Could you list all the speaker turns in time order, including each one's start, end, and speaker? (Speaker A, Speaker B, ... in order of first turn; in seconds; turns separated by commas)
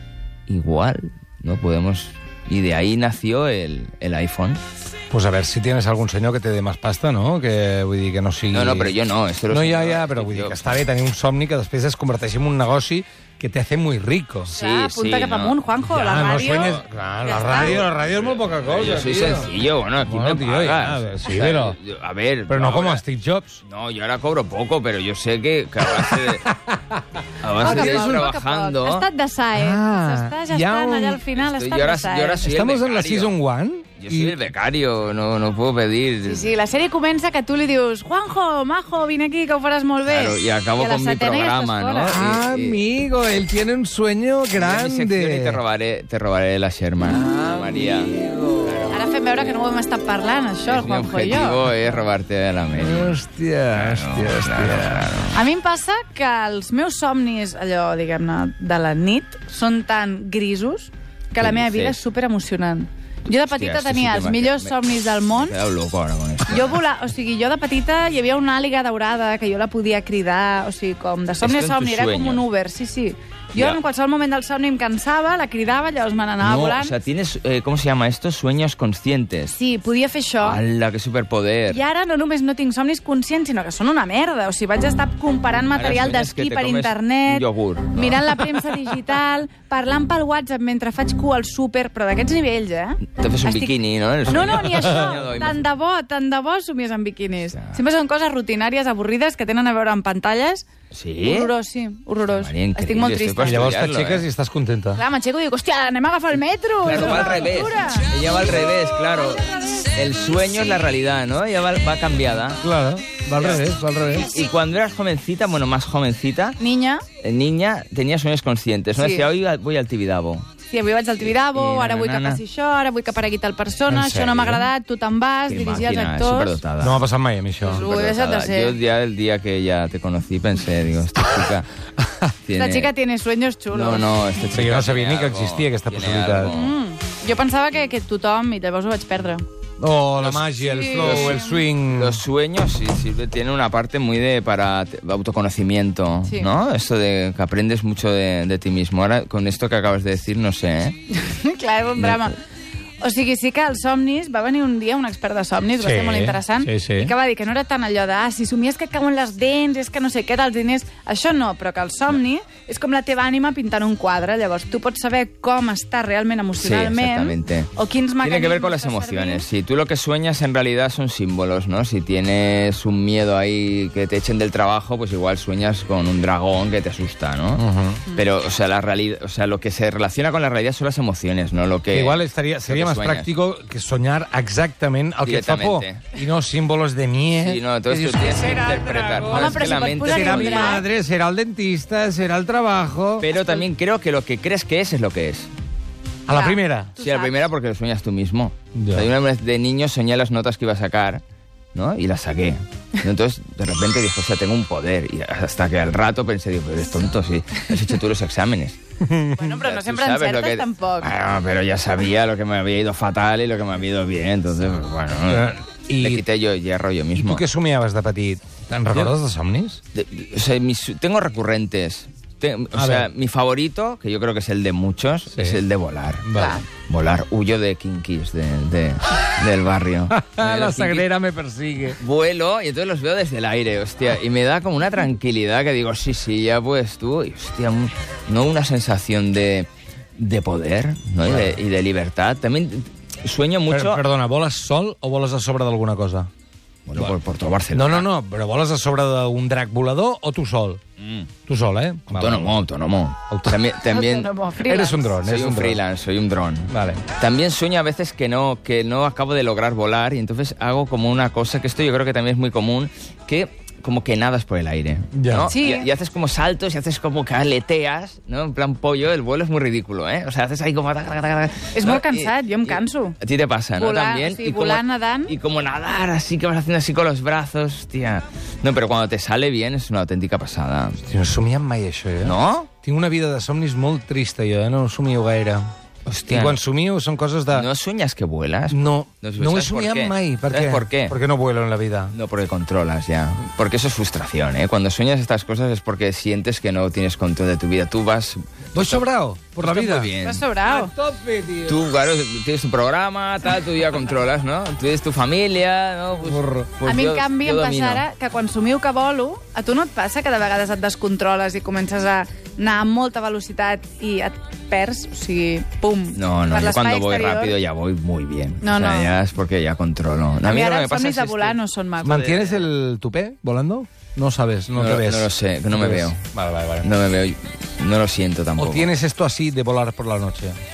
Speaker A: 0.5-4.6, Speaker B: 5.1-8.9, Speaker A: 8.5-10.8, Speaker B: 9.5-14.5, Speaker A: 14.5-15.6, Speaker C: 14.6-17.8, Speaker B: 15.8-19.5, Speaker A: 16.4-16.8, Speaker A: 17.4-23.0, Speaker B: 20.0-21.8, Speaker B: 22.5-23.6, Speaker A: 23.6-26.5, Speaker B: 25.9-27.0, Speaker A: 27.4-29.1, Speaker B: 27.6-28.3, Speaker C: 27.6-32.5, Speaker B: 29.5-31.2, Speaker A: 31.4-33.4, Speaker B: 32.4-34.4, Speaker A: 34.0-36.5, Speaker C: 36.2-42.2, Speaker A: 40.1-42.8, Speaker B: 42.1-45.6, Speaker A: 44.5-49.5, Speaker B: 47.0-48.8, Speaker C: 48.9-51.7, Speaker A: 50.7-53.2, Speaker B: 52.8-55.1, Speaker A: 53.7-55.4, Speaker C: 55.3-65.6, Speaker A: 61.4-62.0, Speaker A: 63.5-66.8, Speaker C: 66.5-76.9, Speaker A: 71.4-72.4, Speaker A: 76.4-79.5, Speaker C: 79.5-80.6, Speaker A: 80.4-81.8, Speaker C: 81.7-93.8, Speaker A: 85.7-88.4, Speaker A: 93.2-95.6, Speaker C: 94.3-100.7, Speaker A: 97.5-97.8, Speaker A: 100.9-101.5, Speaker C: 101.2-103.8, Speaker A: 102.3-104.2, Speaker B: 103.4-105.0, Speaker C: 105.0-108.1, Speaker A: 106.8-112.6, Speaker B: 112.6-114.3, Speaker A: 113.4-113.7, Speaker A: 114.2-116.6, Speaker C: 116.6-117.0, Speaker A: 117.2-120.5, Speaker C: 119.0-119.3, Speaker C: 120.7-126.6, Speaker A: 121.3-122.4, Speaker B: 123.9-124.7, Speaker A: 125.5-127.0, Speaker B: 126.8-127.8, Speaker C: 127.6-128.8, Speaker A: 127.7-131.7, Speaker B: 132.0-132.3, Speaker A: 132.4-132.9, Speaker C: 132.5-134.1, Speaker A: 133.7-136.8, Speaker B: 134.5-136.5, Speaker C: 136.4-139.4, Speaker B: 139.8-142.2, Speaker A: 140.2-151.0, Speaker C: 140.6-141.6, Speaker C: 151.1-152.4, Speaker C: 153.0-169.5, Speaker B: 155.8-157.1, Speaker A: 166.6-183.3, Speaker B: 177.6-178.0, Speaker B: 181.9-193.3, Speaker A: 185.2-186.1, Speaker A: 187.4-190.9, Speaker C: 189.3-190.8, Speaker A: 193.2-195.5, Speaker B: 196.3-196.9, Speaker C: 196.3-197.4, Speaker A: 197.0-201.2, Speaker B: 198.8-199.1, Speaker A: 201.7-208.8, Speaker B: 209.0-209.5, Speaker C: 209.3-211.1, Speaker A: 209.6-217.4, Speaker B: 215.3-216.3, Speaker B: 217.2-219.8, Speaker A: 219.9-231.1, Speaker B: 222.7-223.1, Speaker B: 225.3-225.6, Speaker B: 226.2-226.6, Speaker C: 226.3-226.6, Speaker B: 230.1-232.0, Speaker A: 232.0-244.0, Speaker B: 241.2-241.6, Speaker B: 243.7-246.3, Speaker A: 246.9-248.1, Speaker B: 247.7-250.8, Speaker A: 251.0-251.3, Speaker B: 251.5-252.6, Speaker A: 252.1-254.3, Speaker B: 253.3-253.6, Speaker C: 253.9-255.2, Speaker B: 254.7-255.8, Speaker A: 255.2-281.0, Speaker B: 256.7-257.0, Speaker B: 265.1-265.5, Speaker C: 265.5-265.9, Speaker C: 271.7-273.2, Speaker C: 273.8-275.4, Speaker B: 281.0-285.7, Speaker A: 282.2-282.7, Speaker A: 286.1-286.6, Speaker B: 286.3-287.7, Speaker A: 287.5-291.2, Speaker B: 288.7-292.1, Speaker A: 292.1-299.1, Speaker B: 298.7-300.1, Speaker A: 299.6-300.4, Speaker C: 300.2-300.9, Speaker B: 300.6-301.8, Speaker A: 301.7-308.1, Speaker B: 306.2-306.7, Speaker C: 306.8-317.6, Speaker A: 316.1-322.7, Speaker C: 318.6-319.1, Speaker C: 320.4-322.3, Speaker B: 322.0-326.9, Speaker A: 324.7-326.2, Speaker A: 326.8-328.9, Speaker B: 328.6-330.6